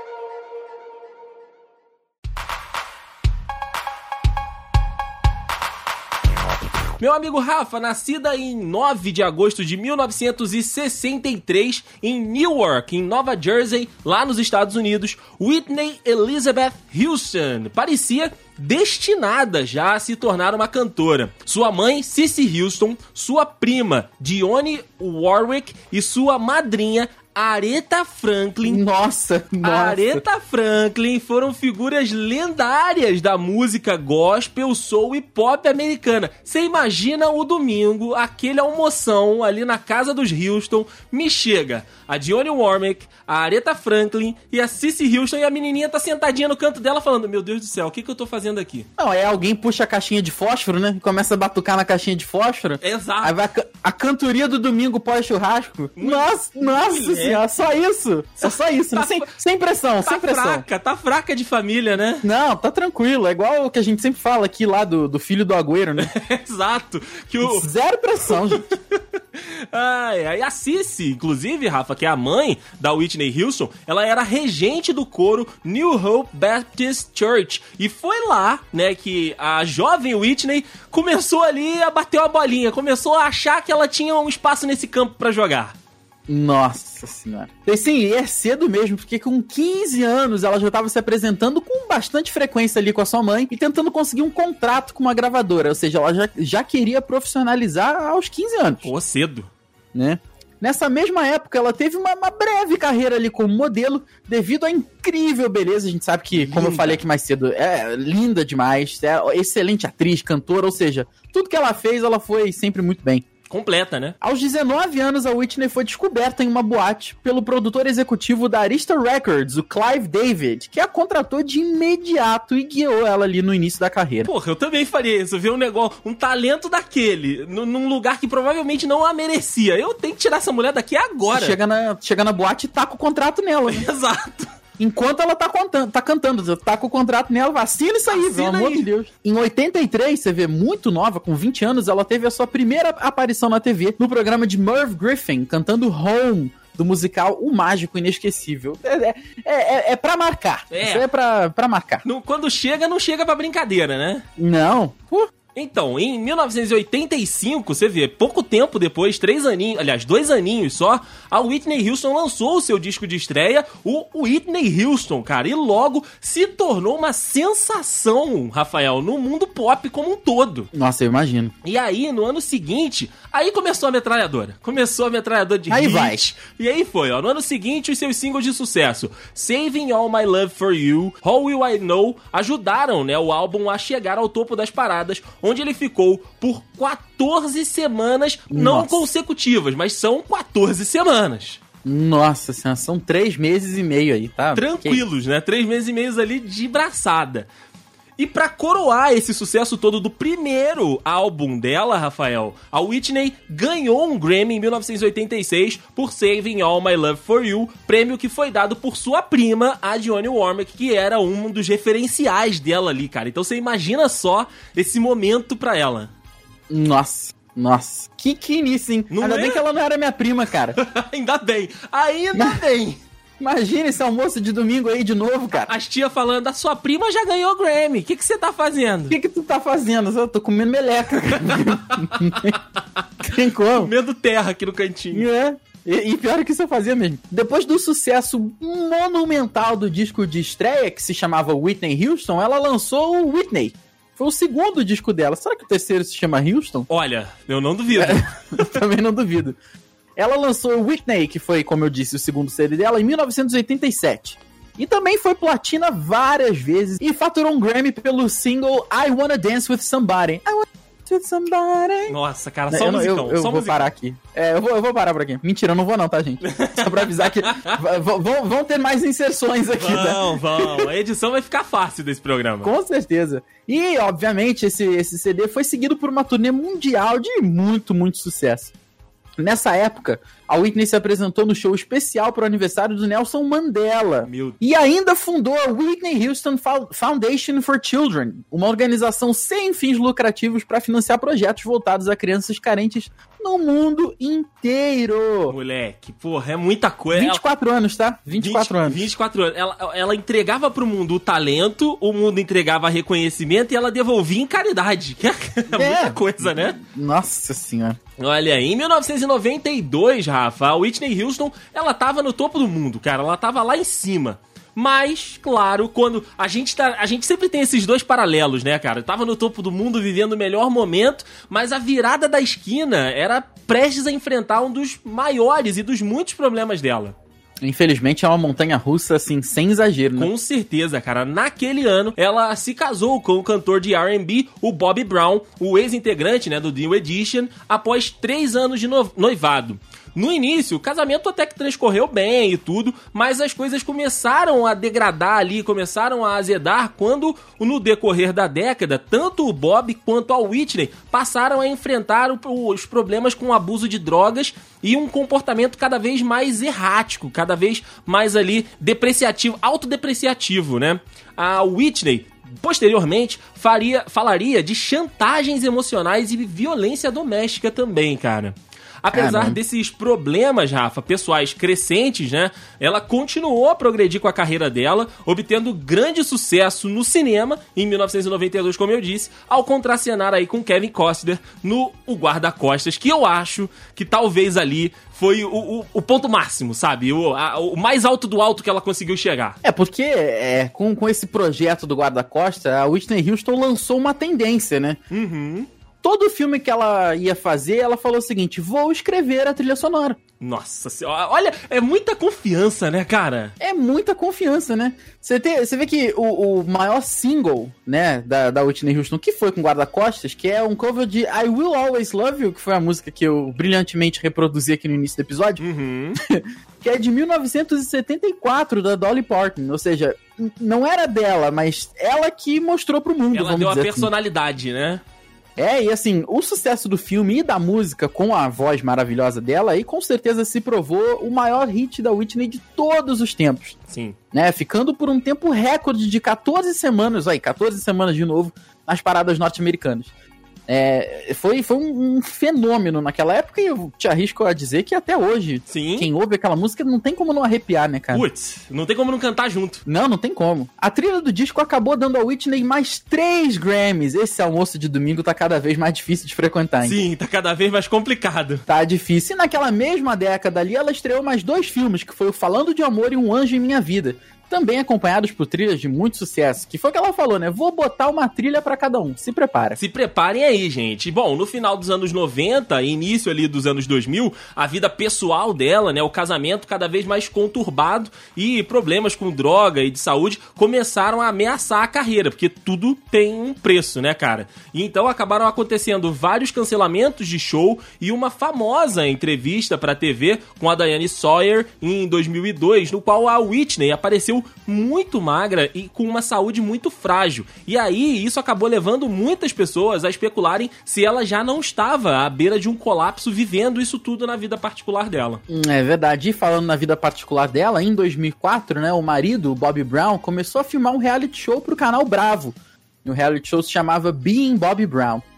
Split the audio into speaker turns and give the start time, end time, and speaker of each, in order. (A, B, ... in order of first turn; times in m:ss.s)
0:07.0-0:28.8 A
0:28.6-0:30.2 B
0:29.6-0:48.9 A
0:49.0-1:00.6 B
0:52.8-0:53.4 A
0:56.0-0:57.4 A
0:58.4-0:59.3 A
1:00.0-1:02.2 A
1:02.2-1:06.1 B
1:06.0-1:07.7 A
1:07.4-1:08.7 B
1:08.3-1:25.8 A
1:26.3-1:38.9 B
1:38.8-1:39.5 A
1:39.9-1:53.2 B
1:46.4-1:47.0 A
1:53.5-1:54.2 A
1:54.2-2:04.3 B
2:04.2-2:11.6 A
2:11.3-2:13.9 B
2:13.7-2:14.5 A
2:14.8-2:32.0 B
2:18.1-2:18.8 A
2:30.7-2:31.1 A
2:32.0-2:34.2 A
2:34.4-2:35.3 B
2:35.5-2:50.7 A
2:50.7-2:51.5 B
2:51.6-3:11.6 A
2:55.7-2:56.2 B
3:08.5-3:09.1 B
3:11.8-3:15.0 B
3:14.5-3:17.5 A
3:18.2-3:36.1 A
3:36.7-3:40.8 B
3:39.1-3:39.6 A
3:40.8-3:43.0 A
3:42.3-3:42.6 B
3:43.4-3:45.7 B
3:45.6-3:49.2 A
3:49.1-3:52.6 B
3:51.9-3:53.0 A
3:53.2-3:53.9 B
3:53.7-3:55.2 A
3:55.1-4:06.9 B
4:06.9-4:08.7 A
4:07.9-4:09.6 B
4:10.2-4:22.1 B
4:22.1-4:23.9 A
4:22.7-4:30.9 B
4:26.4-4:27.8 A
4:29.8-4:32.7 A
4:32.6-4:38.7 B
4:39.4-4:55.6 B
4:44.2-4:44.6 A
4:55.5-4:57.4 A
4:57.1-4:59.0 B
4:58.3-5:06.8 A
5:05.7-5:08.0 B
5:08.2-5:27.1 A
5:27.6-5:30.3 B
5:30.2-6:29.6 A
6:09.1-6:09.6 B
6:29.6-6:35.0 B
6:35.1-6:35.7 A
6:36.0-6:40.2 B
6:40.4-6:43.5 A
6:43.6-6:55.6 B
6:55.6-6:56.2 A
6:56.2-7:04.1 B
7:03.3-7:05.0 A
7:05.6-7:13.8 B
7:13.9-7:14.2 A
7:14.3-7:20.1 B
7:20.7-7:28.2 B
7:25.7-7:26.1 A
7:28.1-7:29.8 A
7:29.8-7:37.0 B
7:36.8-7:38.6 A
7:38.7-7:49.8 B
7:49.8-8:25.4 A
8:25.5-8:35.2 B